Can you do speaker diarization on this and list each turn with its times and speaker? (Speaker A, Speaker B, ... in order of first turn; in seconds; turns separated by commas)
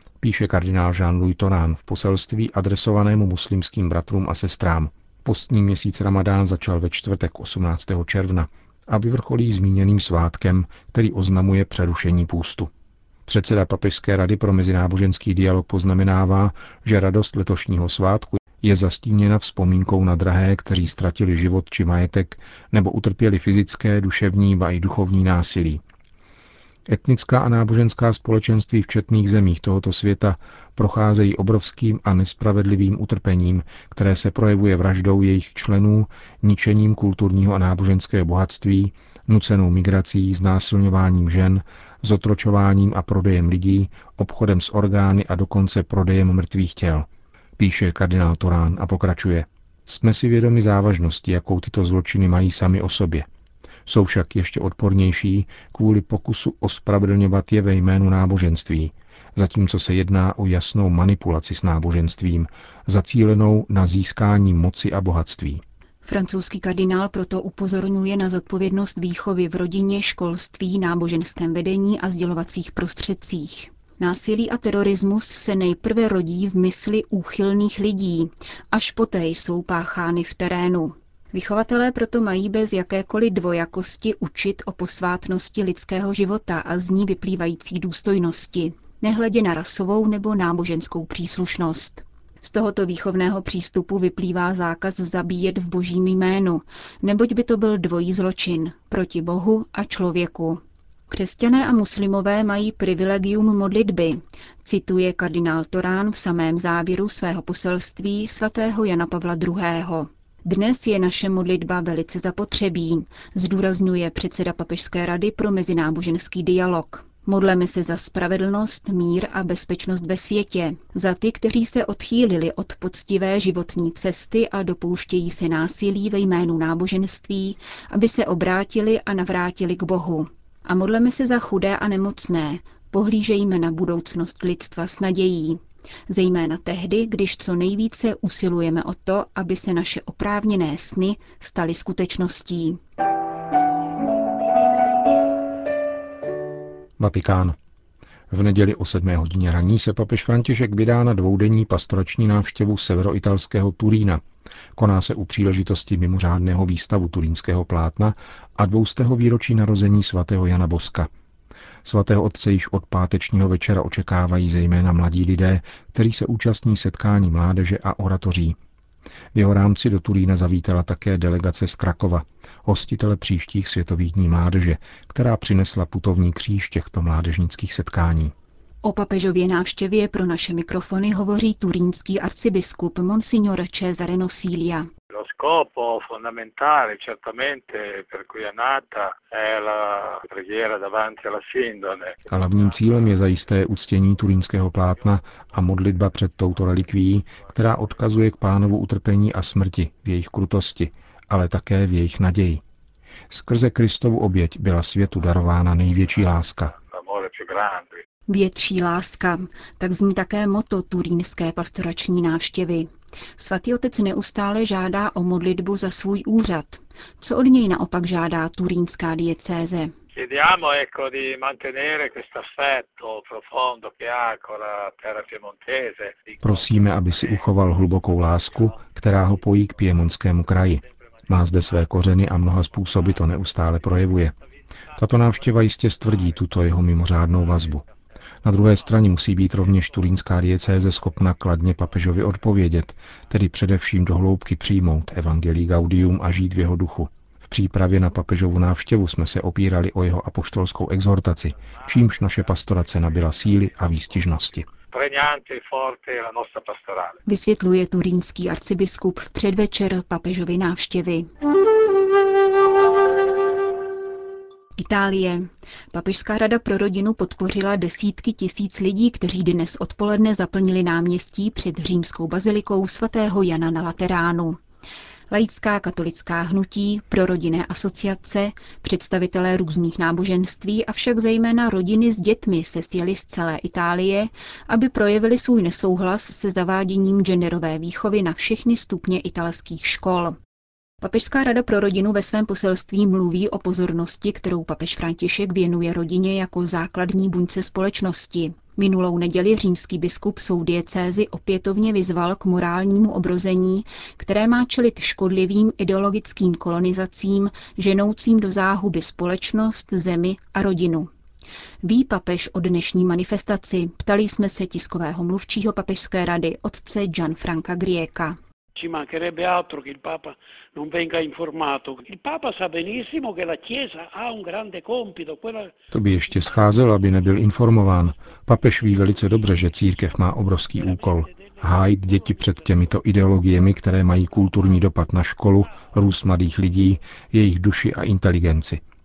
Speaker A: 0.2-12.7, Speaker A: 13.3-25.8, Speaker A: 26.9-53.3, Speaker A: 53.9-65.6, Speaker B: 66.0-142.8, Speaker A: 147.0-147.6, Speaker A: 148.3-154.2, Speaker A: 154.8-161.1, Speaker A: 161.8-168.6, Speaker A: 169.3-178.3, Speaker B: 178.8-184.9, Speaker C: 185.1-192.3, Speaker A: 192.3-202.6, Speaker A: 203.3-206.7, Speaker C: 206.8-208.0, Speaker B: 208.3-219.9, Speaker C: 220.2-227.3, Speaker A: 226.4-234.3, Speaker A: 235.0-237.8, Speaker A: 238.4-254.7, Speaker C: 254.9-257.2, Speaker B: 257.3-261.3, Speaker B: 264.8-274.6, Speaker B: 275.3-290.4, Speaker B: 291.0-311.1, Speaker B: 311.8-318.4, Speaker D: 318.8-325.7, Speaker A: 325.9-338.8, Speaker D: 330.8-333.0